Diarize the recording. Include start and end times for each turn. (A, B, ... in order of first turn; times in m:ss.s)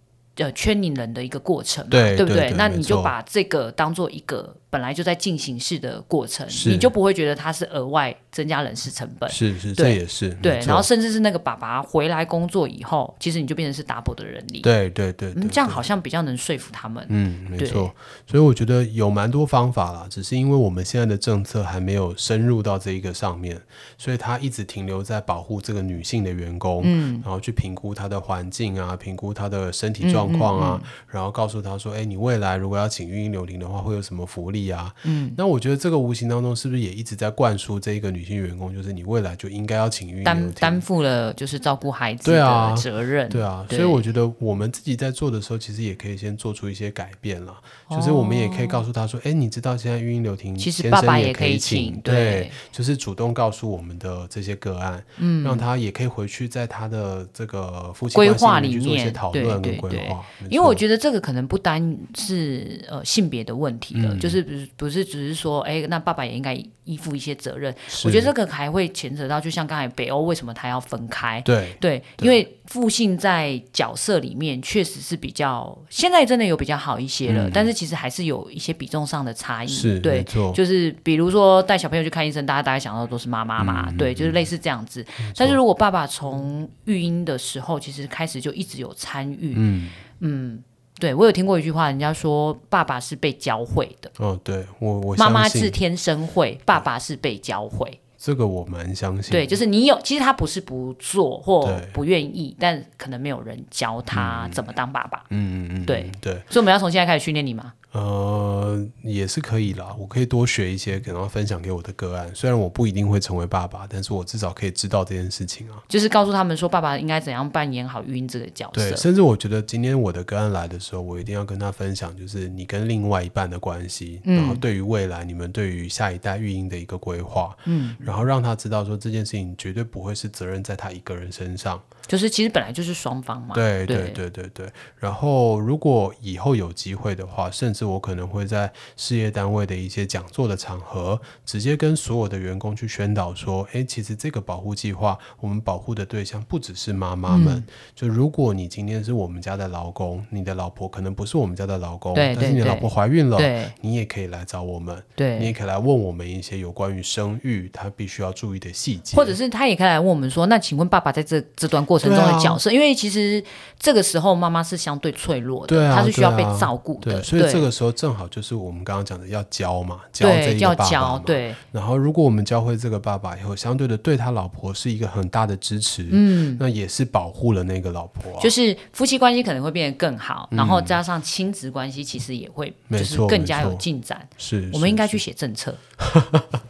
0:00.4-0:14.7 A
0:01.9-0:03.1 B
0:06.5-0:06.9 B
0:09.3-0:10.9 B
0:14.6-0:15.9 B
0:15.3-0:17.9 A
0:17.1-0:40.8 B
0:26.8-0:27.3 A
0:30.0-0:30.9 A
0:35.0-0:35.4 A
0:40.2-0:44.0 A
0:42.2-1:00.8 B
0:47.9-0:48.8 A
0:50.6-0:52.6 A
0:55.2-0:55.7 A
0:58.1-1:29.6 A
1:03.9-1:04.4 B
1:07.9-1:08.3 B
1:11.4-1:12.4 B
1:17.3-1:17.7 B
1:19.7-1:20.6 B
1:23.6-1:24.5 B
1:25.2-1:25.6 B
1:29.5-1:30.0 B
1:30.2-1:34.1 A
1:34.2-1:35.8 B
1:35.2-1:38.0 A
1:38.2-1:39.6 B
1:39.3-1:45.3 A
1:41.6-1:42.0 B
1:44.1-1:44.6 B
1:45.3-1:46.5 B
1:45.8-1:47.7 A
1:47.9-1:55.8 B
1:55.9-1:59.0 A
1:58.7-2:11.8 B
2:04.2-2:04.6 A
2:07.7-2:08.2 A
2:12.1-2:14.2 A
2:13.5-2:39.4 B
2:27.3-2:27.7 A
2:32.1-2:33.7 A
2:35.2-2:35.5 A
2:39.1-2:47.7 A
2:42.0-2:42.6 B
2:45.7-2:58.5 B
2:50.2-2:51.6 A
2:56.1-2:56.6 A
2:58.4-3:05.8 A
3:00.5-3:01.0 B
3:02.9-3:03.8 B
3:04.4-3:05.2 B
3:06.0-3:06.5 B